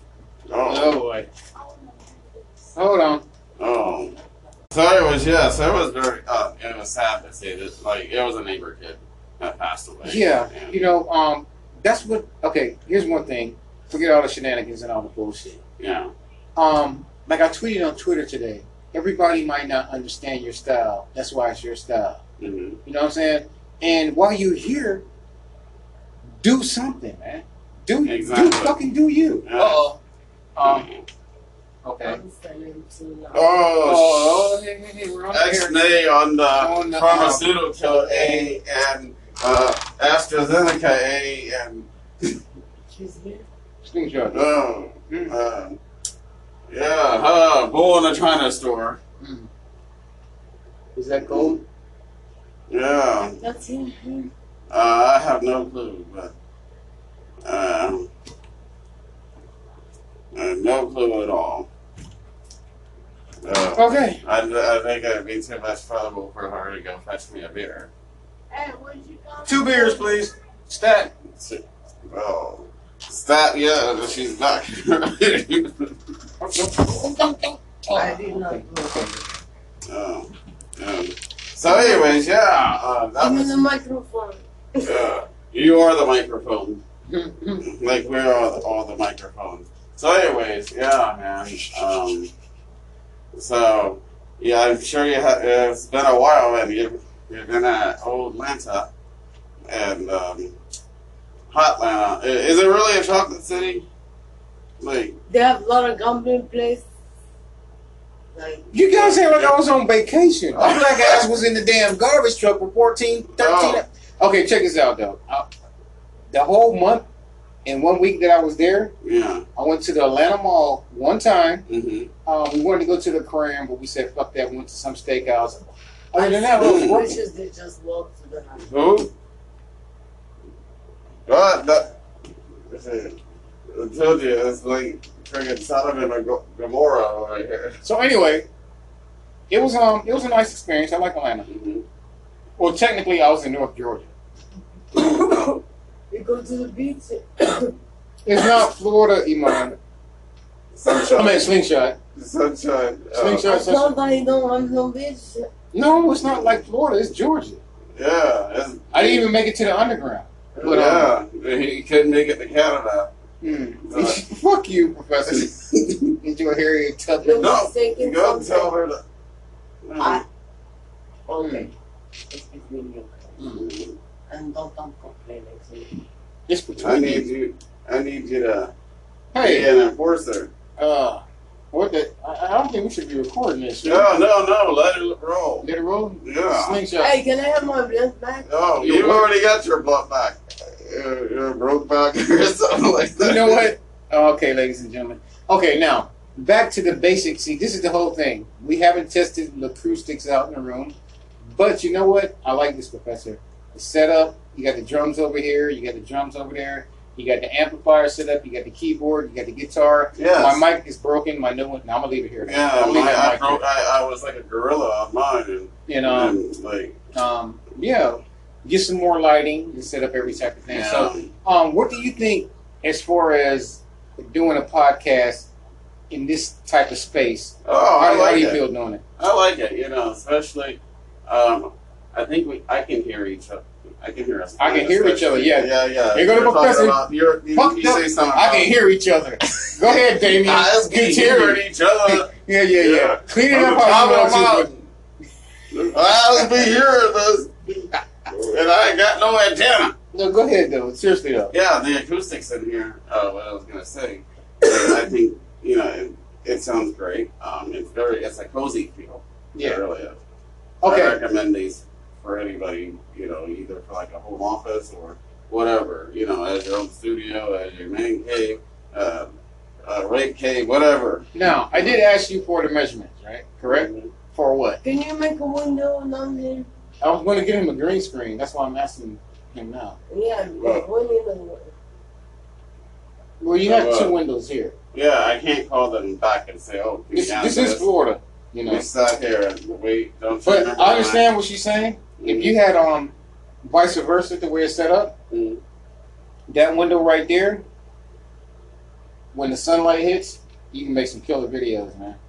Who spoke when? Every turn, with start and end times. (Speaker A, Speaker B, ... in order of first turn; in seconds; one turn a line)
Speaker A: 0.5-1.0
Speaker B: 0.6-1.3
Speaker B: 2.8-3.2
Speaker A: 3.6-4.2
Speaker A: 4.7-10.8
Speaker B: 10.0-15.6
Speaker A: 15.8-16.1
Speaker B: 16.6-22.2
Speaker A: 22.4-22.8
Speaker B: 22.9-25.0
Speaker B: 26.4-30.0
Speaker A: 28.1-28.8
Speaker A: 29.4-29.8
Speaker B: 30.6-30.9
Speaker A: 30.6-31.0
Speaker B: 31.9-32.2
Speaker C: 32.0-33.5
Speaker A: 33.3-34.6
Speaker B: 33.8-35.8
Speaker A: 35.3-42.4
Speaker B: 36.5-38.5
Speaker C: 42.9-43.5
Speaker B: 43.8-44.5
Speaker A: 44.3-45.8
Speaker B: 45.1-45.4
Speaker A: 46.7-49.0
Speaker B: 49.2-49.5
Speaker B: 51.0-51.6
Speaker A: 51.2-51.6
Speaker A: 52.7-53.4
Speaker C: 53.4-54.3
Speaker A: 54.7-56.3
Speaker A: 57.4-58.1
Speaker A: 60.3-61.7
Speaker A: 63.4-67.9
Speaker B: 63.8-64.2
Speaker C: 68.5-70.2
Speaker B: 69.5-71.1
Speaker A: 71.4-76.0
Speaker B: 76.4-79.1
Speaker C: 77.9-79.2
Speaker A: 79.9-83.5
Speaker C: 83.2-85.0
Speaker A: 84.8-86.8
Speaker B: 87.1-87.6
Speaker A: 87.6-92.3
Speaker A: 93.3-98.9
Speaker A: 99.7-100.5
Speaker A: 101.5-103.9
Speaker A: 104.8-105.2
Speaker C: 105.3-106.8
Speaker C: 108.3-108.7
Speaker B: 108.7-115.5
Speaker A: 108.9-109.6
Speaker A: 110.5-111.2
Speaker A: 113.4-113.8
Speaker B: 116.3-117.1
Speaker B: 117.7-118.9
Speaker A: 119.0-119.4
Speaker B: 119.6-121.7
Speaker A: 121.7-122.1
Speaker B: 122.3-127.1
Speaker C: 126.1-128.7
Speaker A: 126.6-127.1
Speaker A: 128.6-129.1
Speaker A: 131.3-131.9
Speaker A: 132.7-133.2
Speaker A: 133.7-137.8
Speaker B: 137.8-138.5
Speaker B: 139.5-141.5
Speaker A: 141.5-141.8
Speaker B: 142.6-144.1
Speaker C: 144.9-147.7
Speaker B: 148.3-149.8
Speaker A: 150.8-151.5
Speaker B: 150.9-152.0
Speaker A: 152.2-153.5
Speaker B: 153.1-153.9
Speaker C: 153.4-155.5
Speaker B: 155.7-157.6
Speaker A: 158.0-159.3
Speaker B: 158.9-161.1
Speaker A: 160.6-163.1
Speaker B: 163.4-165.5
Speaker A: 163.9-164.2
Speaker A: 165.3-166.2
Speaker B: 166.2-167.5
Speaker C: 167.2-168.7
Speaker A: 167.4-169.0
Speaker A: 169.8-170.2
Speaker C: 171.3-171.7
Speaker B: 171.4-171.7
Speaker C: 172.3-173.6
Speaker B: 173.4-173.7
Speaker A: 173.5-173.9
Speaker C: 174.3-176.0
Speaker B: 176.5-177.3
Speaker A: 176.8-178.7
Speaker B: 179.3-179.7
Speaker A: 179.4-180.5
Speaker B: 180.8-184.1
Speaker A: 183.8-185.7
Speaker B: 185.6-187.2
Speaker A: 186.2-186.8
Speaker C: 187.0-188.5
Speaker A: 188.5-193.7
Speaker B: 188.8-189.3
Speaker B: 193.2-200.9
Speaker B: 201.5-213.6
Speaker A: 210.2-210.6
Speaker A: 212.4-217.0
Speaker B: 215.9-216.4
Speaker B: 217.1-225.5
Speaker A: 220.7-221.3
Speaker B: 226.1-229.0
Speaker A: 227.7-228.6
Speaker A: 229.2-238.8
Speaker B: 234.6-237.0
Speaker B: 237.5-244.7
Speaker A: 239.6-244.9
Speaker A: 245.7-249.9
Speaker B: 250.1-251.5
Speaker A: 251.5-260.2
Speaker B: 259.6-259.8
Speaker B: 260.8-261.2
Speaker A: 260.8-269.3
Speaker A: 269.9-272.0
Speaker B: 271.4-274.8
Speaker A: 273.7-274.1
Speaker C: 274.8-276.7
Speaker B: 277.0-280.0
Speaker C: 280.1-281.6
Speaker A: 280.6-280.9
Speaker B: 283.4-284.8
Speaker A: 283.6-284.1
Speaker A: 284.9-287.9
Speaker B: 287.1-288.9
Speaker A: 288.7-291.3
Speaker B: 290.4-295.1
Speaker A: 292.2-292.5
Speaker A: 295.3-295.6
Speaker B: 296.5-297.6
Speaker B: 299.3-302.2